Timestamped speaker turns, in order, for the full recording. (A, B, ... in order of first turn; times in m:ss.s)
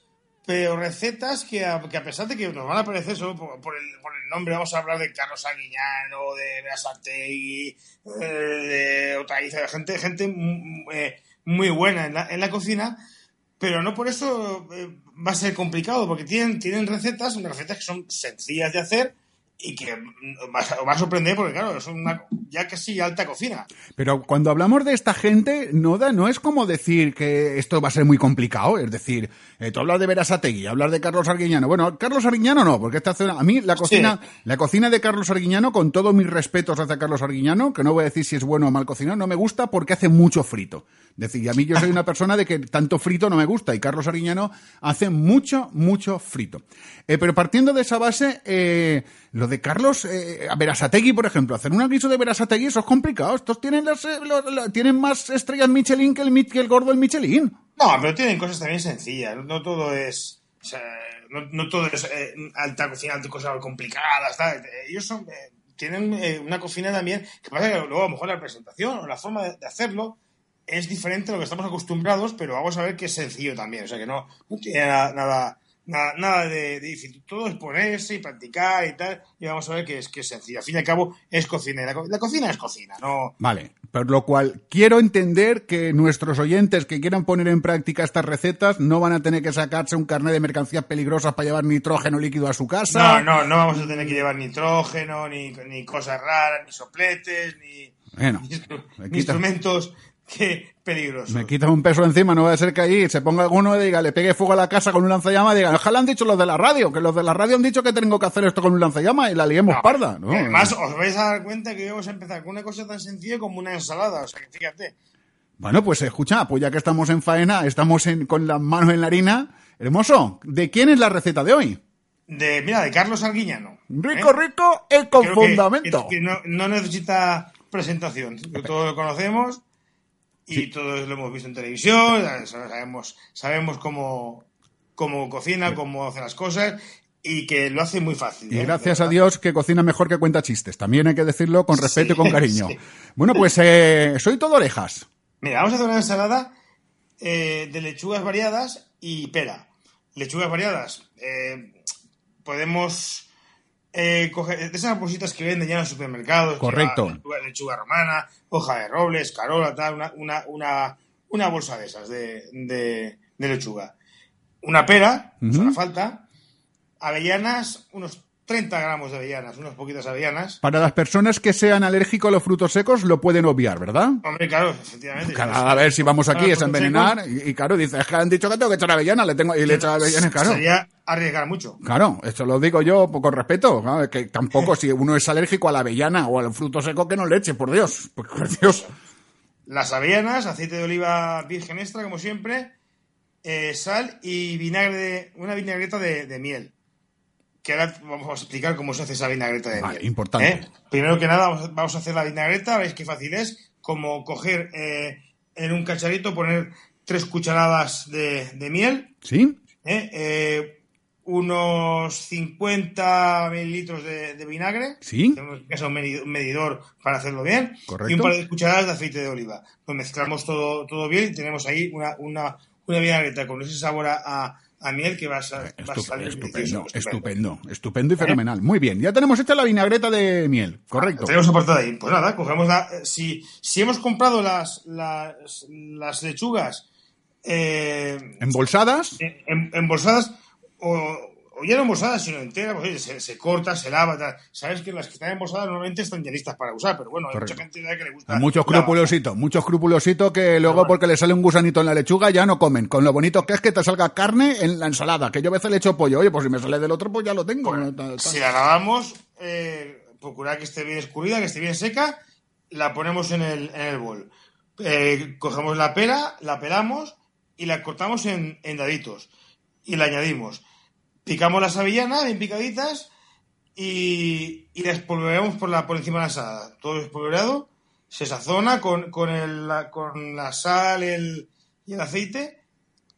0:00.4-0:13.0 A
0:13.6-0:23.7 A
0:24.0-0:57.6 B
0:33.8-0:34.2 A
0:57.8-1:23.4 A
1:23.4-1:33.3 B
1:32.9-1:41.5 A
1:38.2-1:38.5 B
1:39.0-1:39.4 B
1:41.3-1:50.8 B
1:49.7-1:55.0 A
1:55.6-2:01.8 B
2:02.3-2:04.3 A
2:03.9-2:06.1 B
2:05.2-2:09.6 A
2:10.5-2:19.2 A
2:18.5-2:25.1 B
2:21.7-2:22.8 A
2:25.4-2:26.6 A
2:27.2-2:31.8 A
2:32.4-2:33.3 A
2:33.9-2:43.9 A
2:36.6-2:37.2 B
2:44.6-2:46.2 A
2:45.4-2:45.8 B
2:47.0-2:50.6 A
2:50.6-2:54.2 B
2:54.2-2:57.2 A
2:55.2-3:00.6 B
2:59.7-3:01.8 A
3:01.8-3:08.9 B
3:09.7-3:12.7 A
3:13.4-3:16.7 A
3:17.6-3:29.1 A
3:19.8-3:20.6 B
3:29.2-3:29.6 B
3:29.8-3:47.3 A
3:35.0-3:35.4 B
3:37.9-3:38.3 B
3:45.6-3:51.4 B
3:51.0-3:56.9 A
3:57.4-3:58.4 A
3:58.4-3:59.2 B
3:59.2-4:09.1 A
4:07.3-4:07.6 B
4:08.3-4:18.4 B
4:10.6-4:11.0 A
4:17.6-4:22.2 A
4:22.7-4:29.3 A
4:29.8-4:30.6 A
4:31.3-4:33.1 A
4:33.8-4:42.6 A